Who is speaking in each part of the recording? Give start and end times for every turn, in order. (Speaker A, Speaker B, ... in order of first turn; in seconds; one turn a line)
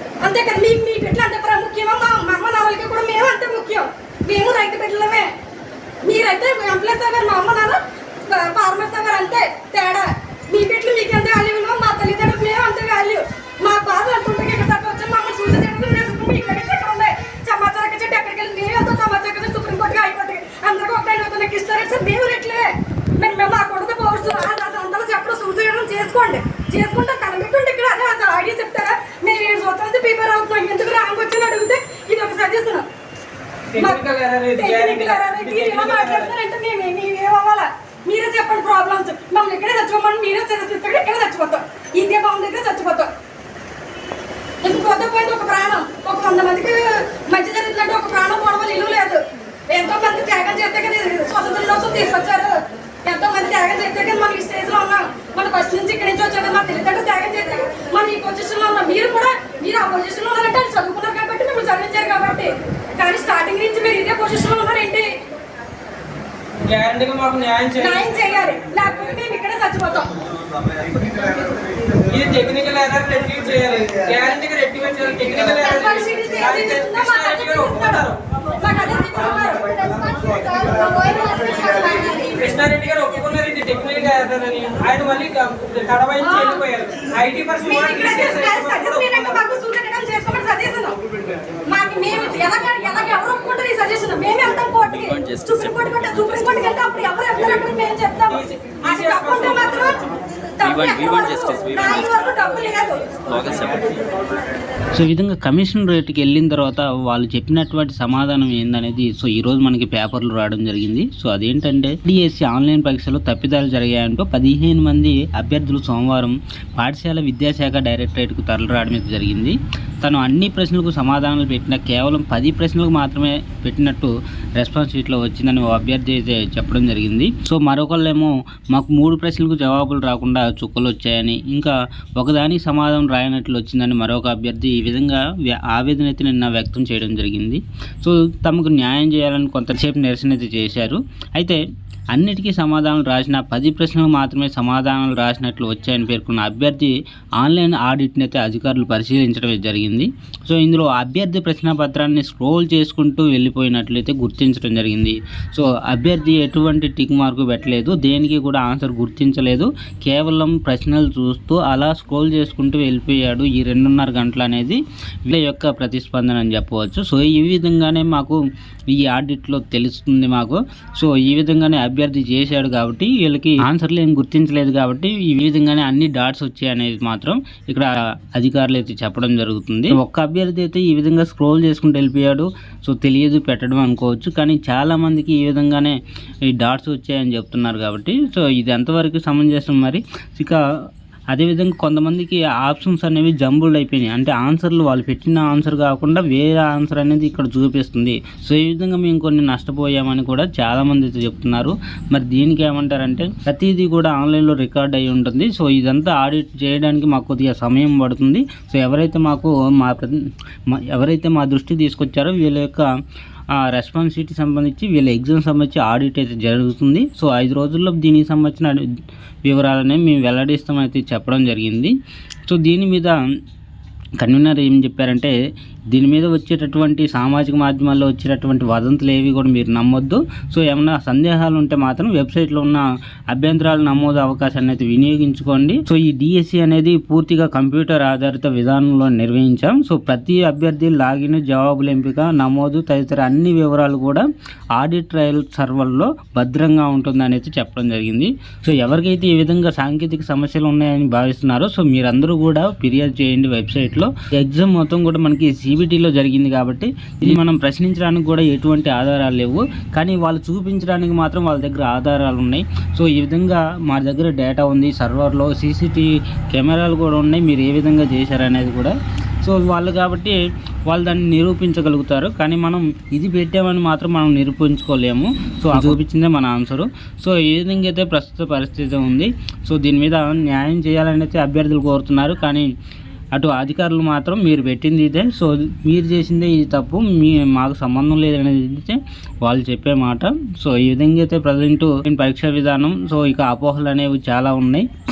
Speaker A: 0.2-5.3
Speaker A: 6.1-22.7
Speaker A: 23.2-32.9
Speaker B: 33.7-36.3
Speaker A: 33.8-43.1
Speaker A: 44.6-65.1
Speaker B: 66.6-68.1
Speaker A: 67.8-70.1
Speaker B: 72.1-78.2
Speaker A: 75.5-78.1
Speaker A: 78.6-82.4
Speaker B: 82.2-89.4
Speaker A: 86.2-86.7
Speaker A: 87.6-91.0
Speaker A: 91.7-100.1
Speaker B: 98.3-100.0
Speaker A: 100.6-103.1
Speaker C: 105.0-141.6
Speaker C: 142.1-168.4
Speaker C: 168.9-186.0
Speaker C: 186.5-190.6
Speaker C: 191.3-210.2
Speaker C: 210.7-212.9
Speaker C: 213.6-218.8
Speaker C: 219.4-221.9
Speaker C: 222.5-223.1
Speaker C: 224.2-225.3
Speaker C: 225.9-244.2
Speaker C: 244.8-270.4
Speaker C: 270.9-282.7
Speaker C: 283.4-294.9